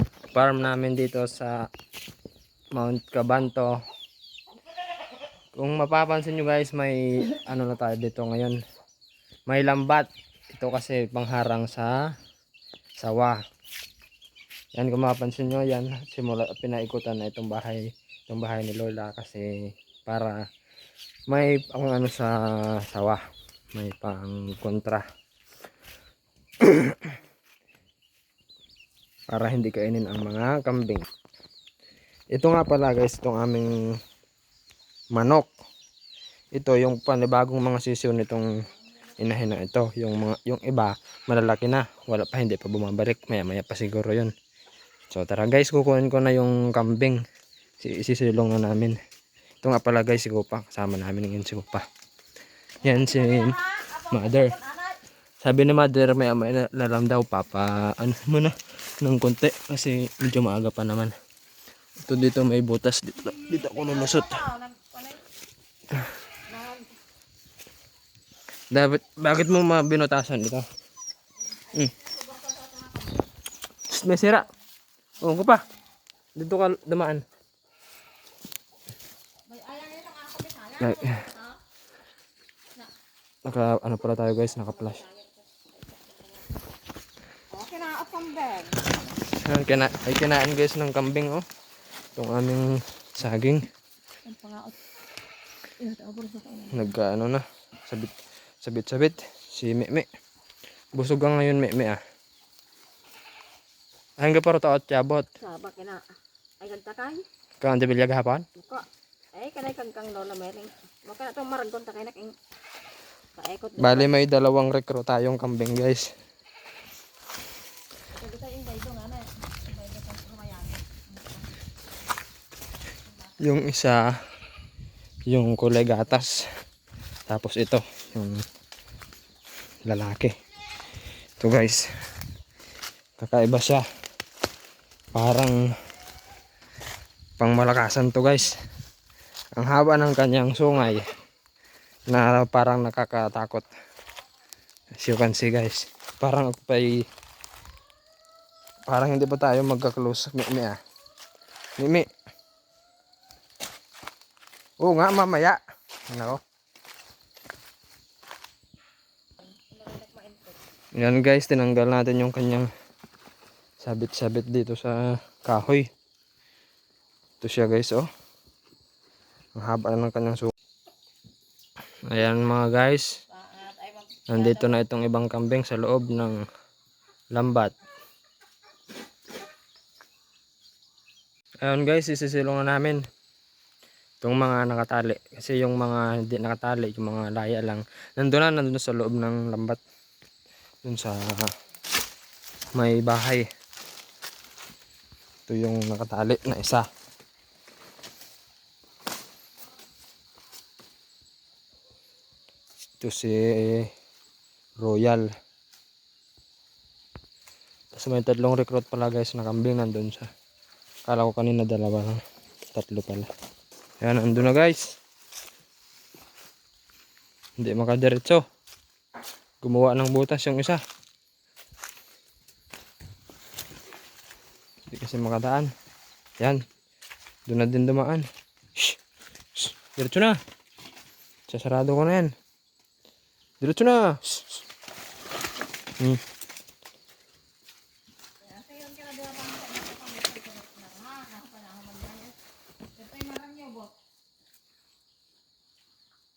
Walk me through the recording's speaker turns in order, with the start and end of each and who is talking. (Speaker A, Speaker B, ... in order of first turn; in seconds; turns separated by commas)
Speaker A: 0.3-1.6, Speaker A: 2.7-3.8, Speaker A: 5.5-8.6, Speaker A: 9.5-12.1, Speaker A: 13.0-13.4, Speaker A: 14.7-20.4, Speaker A: 21.3-23.2, Speaker A: 23.8-25.1, Speaker A: 26.6-27.1, Speaker A: 29.3-31.1, Speaker A: 32.3-33.7, Speaker A: 35.1-35.5, Speaker A: 36.5-38.5, Speaker A: 39.2-44.3, Speaker A: 45.1-47.2, Speaker A: 47.8-49.0, Speaker A: 49.6-51.9, Speaker A: 52.8-53.6, Speaker B: 52.8-55.0, Speaker A: 54.1-54.6, Speaker A: 55.4-61.1, Speaker A: 62.0-64.5, Speaker B: 63.2-65.2, Speaker B: 66.5-66.9, Speaker A: 68.7-70.7, Speaker B: 71.7-73.3, Speaker A: 73.9-74.5, Speaker A: 75.2-75.6, Speaker B: 75.3-75.6, Speaker A: 76.4-77.2, Speaker B: 79.5-81.6, Speaker A: 80.8-81.2, Speaker A: 83.5-85.0, Speaker B: 84.6-86.4, Speaker B: 87.5-88.9, Speaker A: 89.3-91.5, Speaker A: 92.2-93.6, Speaker B: 94.3-94.8, Speaker B: 95.8-96.9, Speaker A: 96.7-100.1, Speaker A: 101.0-102.0, Speaker A: 104.2-105.3, Speaker B: 105.4-107.2, Speaker A: 107.6-108.5, Speaker B: 108.6-112.4, Speaker B: 113.4-114.1, Speaker A: 113.8-116.1, Speaker B: 118.1-121.5, Speaker A: 123.4-124.1, Speaker A: 125.3-126.5, Speaker A: 127.3-128.4, Speaker A: 129.9-130.3, Speaker A: 131.4-131.9, Speaker A: 133.2-133.8, Speaker A: 135.1-135.7, Speaker A: 137.4-138.6, Speaker A: 139.6-141.1, Speaker A: 142.1-143.7, Speaker A: 145.0-147.1, Speaker A: 148.9-150.8, Speaker A: 151.8-152.1, Speaker A: 154.8-156.4, Speaker B: 159.4-160.6, Speaker A: 161.0-162.7, Speaker A: 163.8-165.9, Speaker A: 167.4-168.1, Speaker A: 169.6-170.5, Speaker A: 172.1-173.1, Speaker B: 173.3-174.8, Speaker A: 174.3-176.4, Speaker A: 177.3-177.7, Speaker A: 181.6-183.0, Speaker A: 184.2-189.8, Speaker A: 190.8-191.5, Speaker A: 192.7-193.5, Speaker A: 195.5-196.9, Speaker A: 203.0-203.9, Speaker A: 204.8-205.3, Speaker A: 207.9-210.3, Speaker A: 211.1-212.2, Speaker A: 212.7-213.3, Speaker A: 214.0-215.0, Speaker A: 217.6-218.4, Speaker A: 219.6-220.8, Speaker A: 224.9-225.7, Speaker A: 227.5-228.3, Speaker A: 229.6-230.4, Speaker A: 231.5-232.3, Speaker A: 233.6-234.6, Speaker B: 238.4-242.4, Speaker B: 243.0-244.0